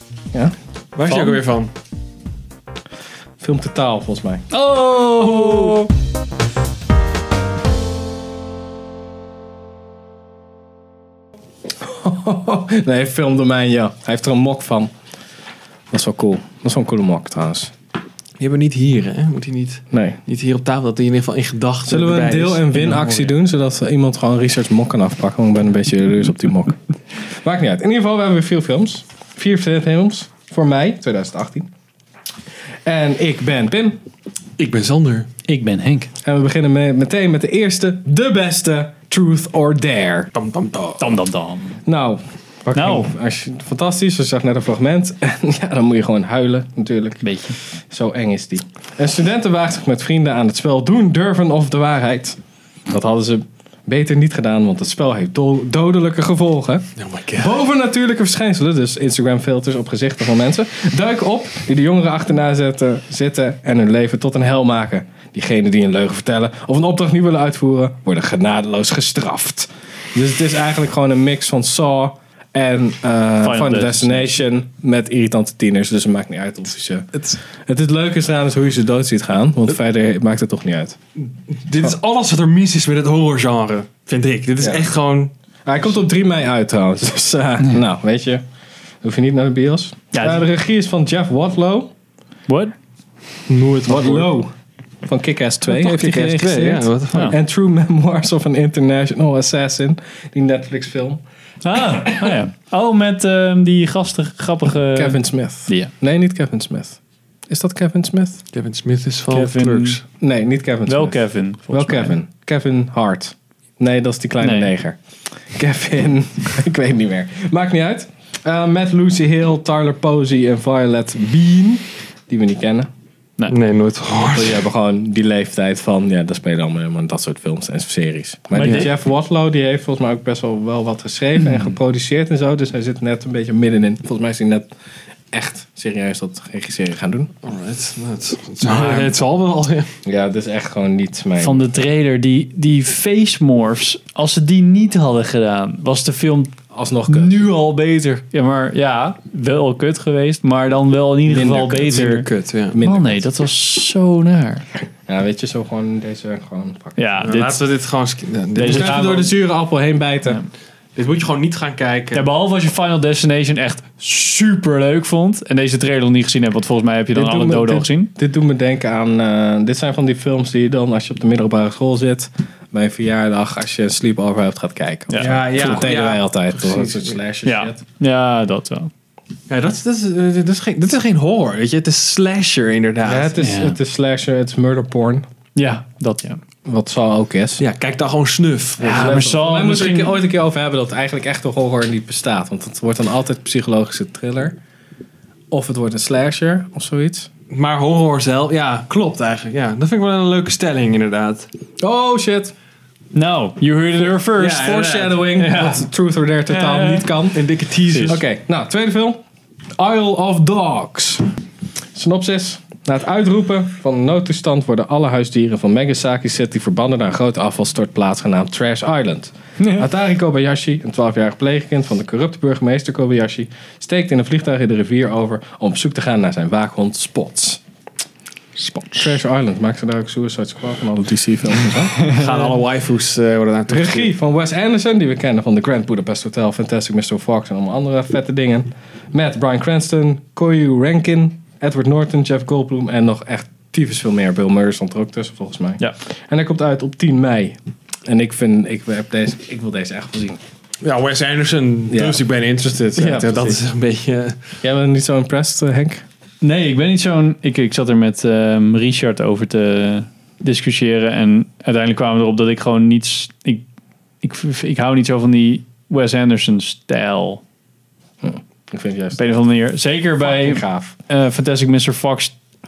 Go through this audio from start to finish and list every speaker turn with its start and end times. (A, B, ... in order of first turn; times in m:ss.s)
0:01.0-0:01.7 A
0:01.1-0:01.4 B
0:03.4-0:04.5 C
0:04.5-0:05.9 B
0:11.8-0:14.9 C
0:15.9-0:17.7 C
0:18.4-0:23.3 A
0:19.9-0:20.2 C
0:21.9-0:31.7 C
0:32.8-0:34.0 C
0:34.6-0:35.3 A
0:35.5-0:36.1 B
0:36.2-0:40.3 C
0:40.3-0:41.2 A
0:41.0-0:41.8 B
0:41.8-1:21.0 C
0:42.7-0:43.1 B
0:47.2-0:47.6 B
0:57.0-0:57.6 A
1:13.4-1:14.3 B
1:21.2-1:25.3 A
1:24.6-1:24.9 C
1:25.7-1:28.4 C
1:29.0-1:31.9 C
1:30.1-1:30.4 B
1:32.5-1:32.7 B
1:33.5-1:34.3 A
1:33.6-1:34.5 C
1:35.0-1:41.2 C
1:35.7-1:37.3 A
1:41.6-1:45.9 B
1:44.9-1:48.4 C
1:48.5-1:50.0 A
1:49.3-1:50.0 B
1:50.2-1:55.0 C
1:50.9-1:52.1 B
1:54.4-1:54.7 B
1:55.5-2:02.9 C
2:03.5-2:04.6 A
2:04.3-2:14.7 C
2:08.5-2:08.9 B
2:15.3-2:17.3 C
2:17.4-2:19.9 A
2:18.6-2:19.1 B
2:20.0-2:21.7 C
2:21.4-2:26.5 B
2:26.7-2:27.5 C
2:27.1-2:32.3 B
2:31.2-2:33.3 C
2:32.2-2:32.8 A
2:32.8-2:34.6 B
2:35.1-2:37.0 C
2:37.0-2:37.6 B
2:37.2-2:39.3 A
2:38.6-2:39.3 B
2:38.6-2:40.4 C
2:41.0-2:42.2 A
2:42.1-2:48.1 B
2:47.1-2:57.8 C
2:55.1-2:55.8 B
2:55.2-2:57.2 A
2:57.4-2:58.9 B
2:59.5-3:03.3 A
3:03.0-3:05.3 C
3:03.4-3:03.8 B
3:05.6-3:06.4 B
3:06.6-3:07.6 C
3:07.6-3:09.3 A
3:08.8-3:14.6 C
3:08.8-3:10.1 B
3:15.5-3:17.3 C
3:17.5-3:21.5 A
3:21.8-3:22.5 C
3:23.1-3:25.9 B
3:24.3-3:25.3 A
3:24.5-3:27.4 C
3:26.5-3:27.0 B
3:27.3-3:28.2 A
3:28.0-3:29.2 C
3:29.8-3:31.2 C
3:31.9-3:47.6 C
3:39.6-3:39.8 B
3:48.9-3:52.0 C
3:52.1-3:54.1 A
3:53.7-4:10.4 C
4:10.8-4:14.4 A
4:11.9-4:12.2 C
4:12.9-4:13.6 C
4:14.6-4:16.0 C
4:16.4-4:23.6 B
4:24.2-4:27.4 B
4:28.2-4:29.4 C
4:29.2-4:32.3 B
4:30.2-4:31.0 C